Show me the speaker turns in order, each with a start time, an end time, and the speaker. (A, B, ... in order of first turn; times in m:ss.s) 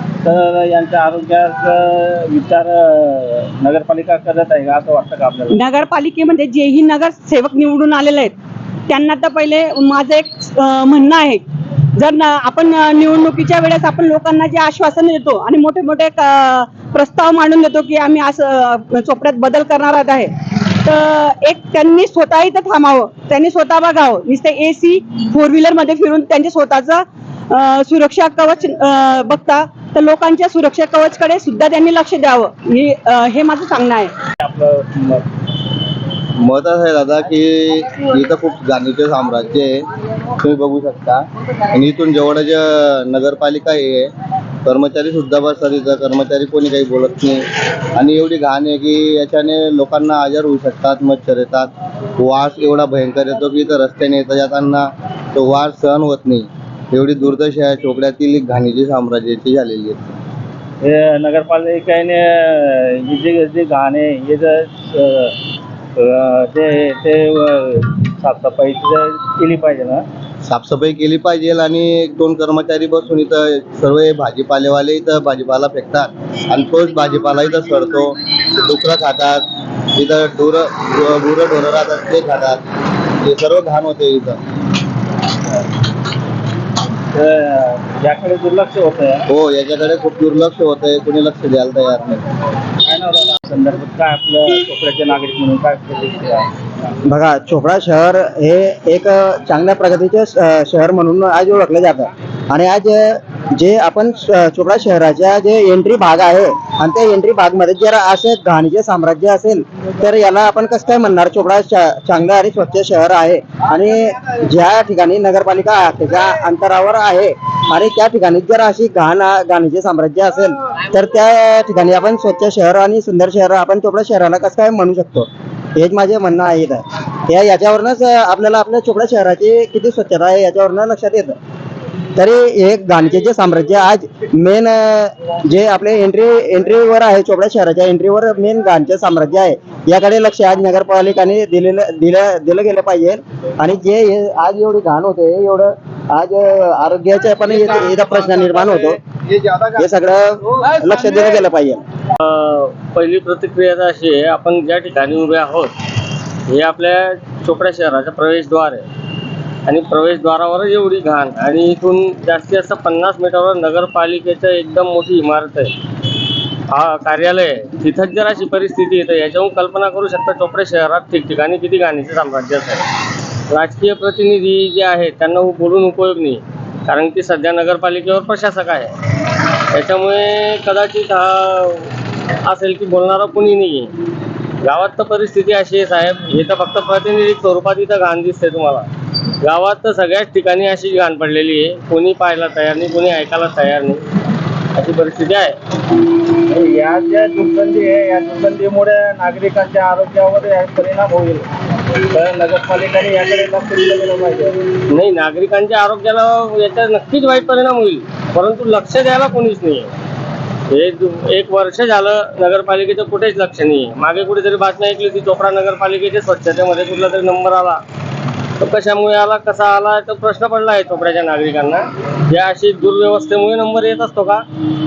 0:00.2-0:05.6 A
0:05.5-0:08.3 B
0:08.9-0:11.4 B
0:12.0-0:20.3 B
0:20.8-0:34.1 B
0:34.4-0:35.2 A
0:36.4-0:44.1 C
0:44.6-1:00.2 C
1:00.8-1:05.4 A
1:06.0-1:10.0 A
1:10.4-1:22.6 C
1:23.2-1:24.4 C
1:27.1-1:29.2 A
1:29.3-1:32.2 C
1:32.8-1:36.5 A
1:37.1-2:11.4 D
2:12.2-2:29.0 D
2:29.6-2:31.8 D
2:32.2-2:35.7 E
2:36.5-2:38.8 E
2:39.7-2:45.7 E
2:46.7-2:52.9 E
2:53.5-3:01.9 E
3:02.4-3:03.9 E
3:04.6-3:08.9 E
3:09.4-3:14.0 E
3:14.7-3:15.5 E
3:16.4-3:21.5 A
3:22.1-3:24.6 A
3:24.9-3:29.9 E
3:30.7-3:37.8 E
3:38.6-3:44.4 E